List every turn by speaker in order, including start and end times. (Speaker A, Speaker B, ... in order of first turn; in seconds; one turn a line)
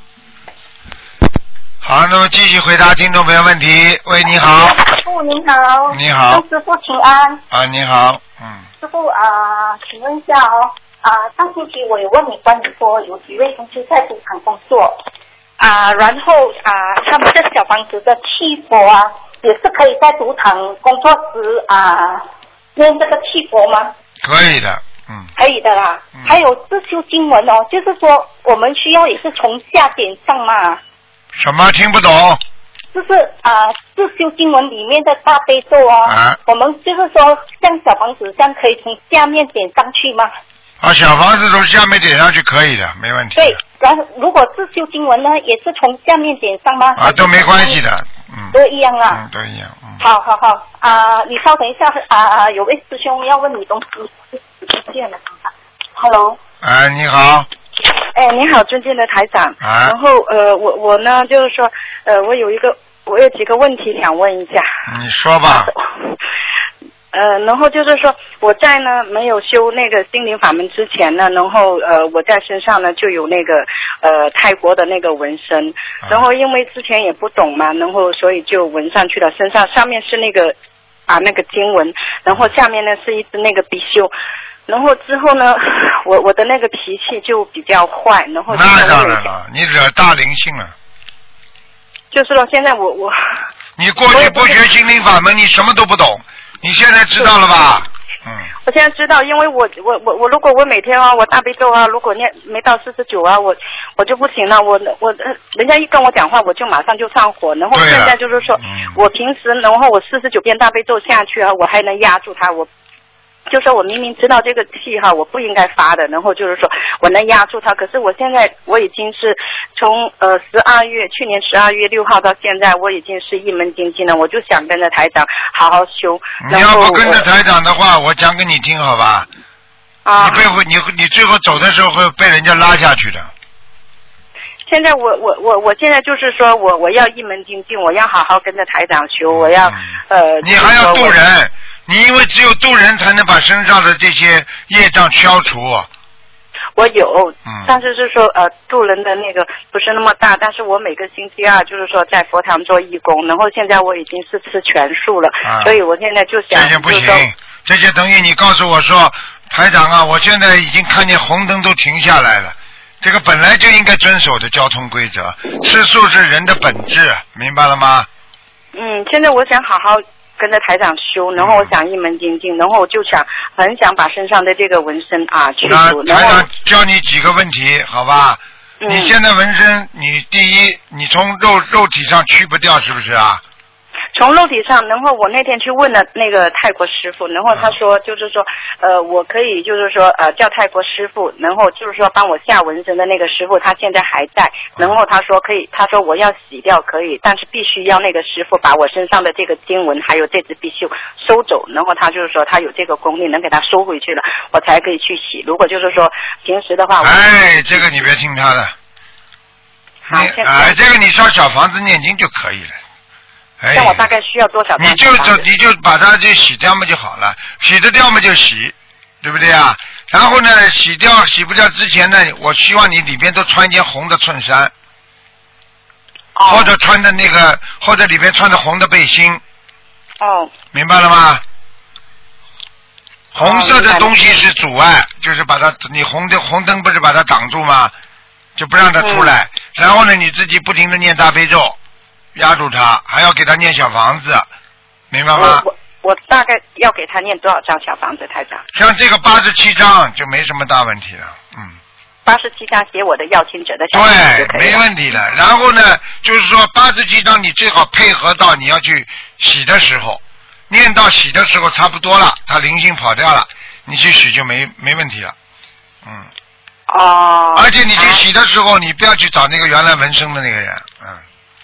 Speaker A: 1.8-4.8
Speaker B: 4.4-7.4
Speaker A: 5.9-6.4
Speaker A: 7.5-8.7
Speaker B: 8.8-15.0
Speaker B: 15.6-22.2
Speaker B: 22.8-23.9
Speaker A: 24.2-25.3
Speaker B: 25.4-30.8
Speaker A: 31.4-32.4
Speaker B: 32.9-40.3
Speaker A: 36.0-36.4
Speaker A: 40.8-43.6
Speaker B: 43.4-47.8
Speaker A: 47.0-48.6
Speaker B: 48.5-49.2
Speaker A: 49.1-50.0
Speaker B: 50.0-56.4
Speaker A: 56.6-57.5
Speaker C: 58.1-64.7
Speaker A: 59.6-60.0
Speaker A: 64.9-65.7
Speaker C: 65.5-66.2
Speaker C: 67.1-80.5
Speaker C: 81.1-84.1
Speaker C: 84.7-89.3
Speaker A: 88.5-90.7
Speaker C: 92.1-93.2
Speaker A: 93.8-98.5
Speaker C: 94.1-94.6
Speaker C: 98.7-112.7
Speaker A: 107.7-109.0
Speaker C: 113.5-127.3
Speaker A: 126.4-129.3
Speaker C: 130.1-130.5
Speaker A: 130.2-133.3
Speaker C: 134.7-141.2
Speaker A: 139.3-145.9
Speaker C: 146.8-157.3
Speaker A: 147.5-147.7
Speaker A: 155.4-155.8
Speaker A: 156.5-168.1
Speaker C: 168.7-176.5
Speaker A: 171.4-171.7
Speaker A: 175.7-183.4
Speaker C: 178.8-179.2
Speaker C: 184.2-207.9
Speaker A: 207.0-208.8
Speaker C: 210.1-210.8
Speaker A: 210.1-212.8
Speaker A: 213.6-214.1
Speaker C: 213.7-215.4
Speaker A: 214.8-224.7
Speaker C: 226.4-226.7
Speaker A: 226.5-229.4
Speaker C: 230.2-230.5
Speaker A: 230.7-231.4
Speaker A: 233.3-237.9
Speaker C: 233.4-234.2
Speaker A: 238.6-241.8
Speaker C: 239.0-239.3
Speaker A: 242.3-244.5
Speaker A: 245.1-245.7
Speaker C: 245.3-248.6
Speaker A: 248.8-251.8
Speaker C: 252.2-255.2
Speaker A: 253.9-265.4
Speaker A: 266.1-266.3
Speaker C: 266.9-268.2
Speaker A: 267.6-271.2